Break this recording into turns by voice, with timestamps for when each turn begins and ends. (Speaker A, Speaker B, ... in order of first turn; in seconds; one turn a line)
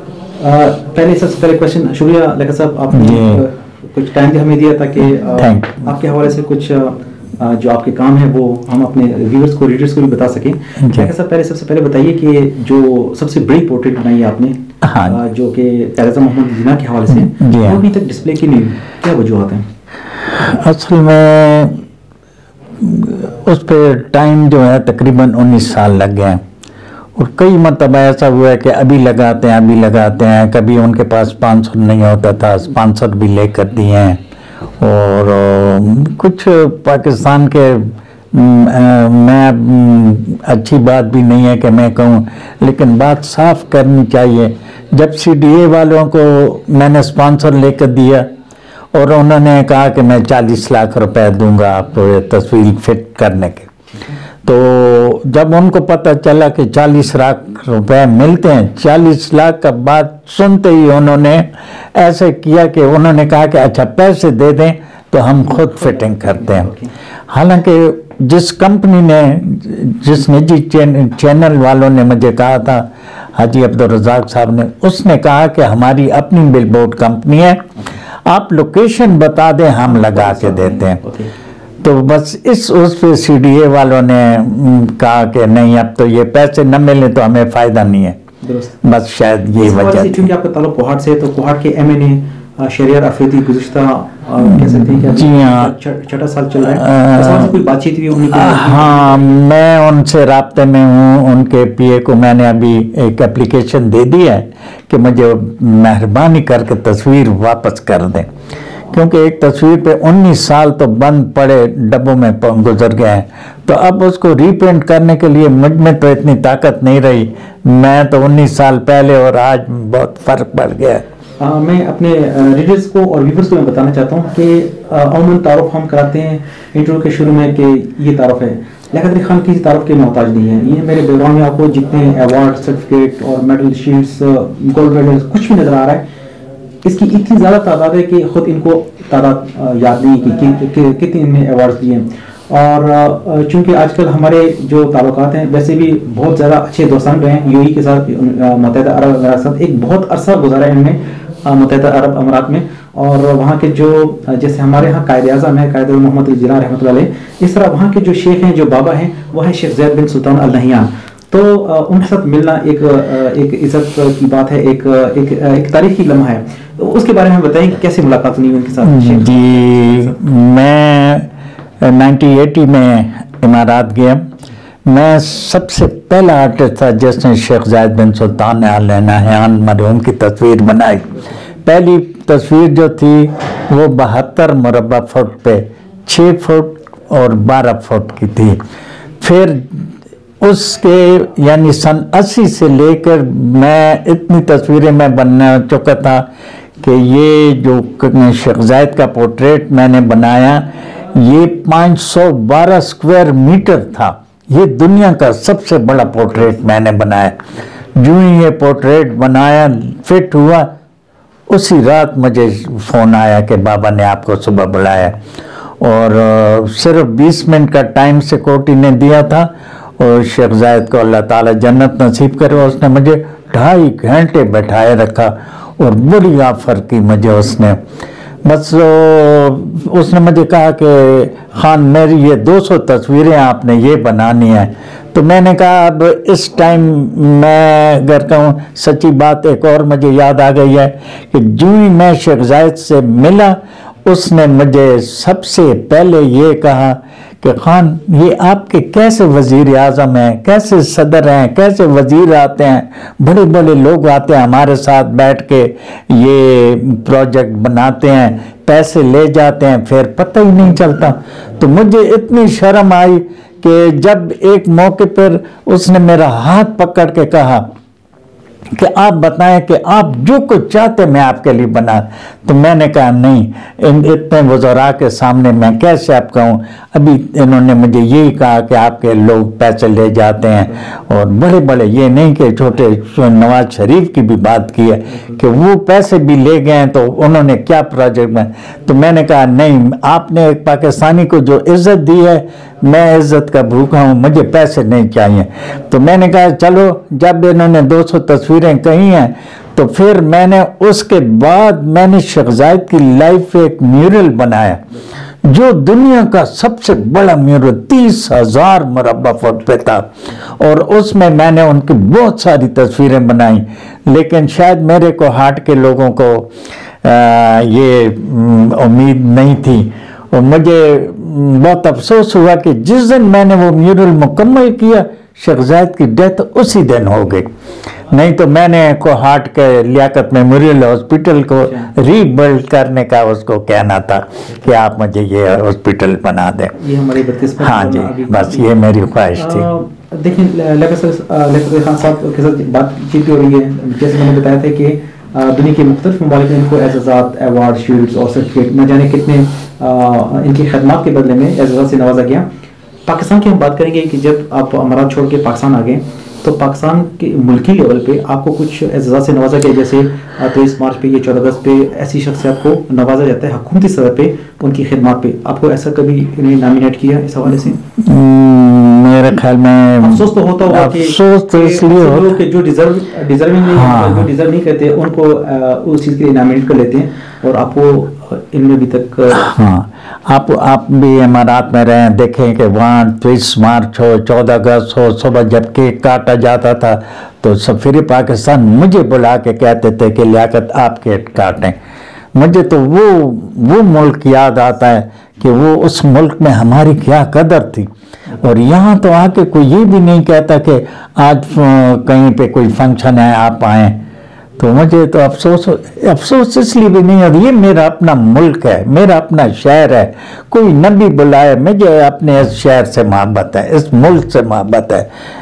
Speaker A: 0.4-19.6
Speaker B: 2.9-3.4
Speaker B: 5.4-5.8
Speaker B: 10.8-11.1
Speaker B: 14.8-15.2
Speaker B: 17.1-17.8
Speaker B: 20.2-21.8
Speaker B: 22.8-26.4
Speaker B: 27.2-34.2
Speaker B: 34.8-48.3
Speaker B: 48.9-53.7
Speaker B: 54.4-66.7
Speaker A: 65.5-66.9
Speaker B: 67.3-77.7
Speaker B: 78.3-81.0
Speaker A: 79.9-81.3
Speaker B: 81.8-88.2
Speaker A: 88.4-88.8
Speaker B: 88.8-90.3
Speaker A: 89.6-99.2
Speaker B: 94.4-95.7
Speaker B: 96.7-97.5
Speaker B: 98.3-108.3
Speaker B: 108.9-121.0
Speaker A: 121.4-136.0
Speaker A: 136.8-170.2
Speaker B: 168.8-171.3
Speaker B: 171.8-174.3
Speaker B: 174.9-188.6
Speaker B: 189.2-196.2
Speaker B: 196.8-207.4
Speaker B: 208.0-210.7
Speaker B: 211.5-215.2
Speaker B: 215.8-227.8
Speaker B: 228.5-267.7
Speaker B: 268.7-304.8
Speaker B: 305.4-316.5
Speaker B: 317.0-327.5
Speaker B: 328.1-336.8
Speaker A: 331.6-331.9
Speaker A: 336.8-338.8
Speaker B: 337.6-339.7
Speaker A: 339.4-352.5
Speaker A: 353.1-367.8
Speaker B: 368.0-372.4
Speaker A: 370.0-379.5
Speaker B: 373.7-374.3
Speaker B: 379.3-391.8
Speaker B: 392.4-397.9
Speaker B: 398.4-404.0
Speaker B: 404.6-415.1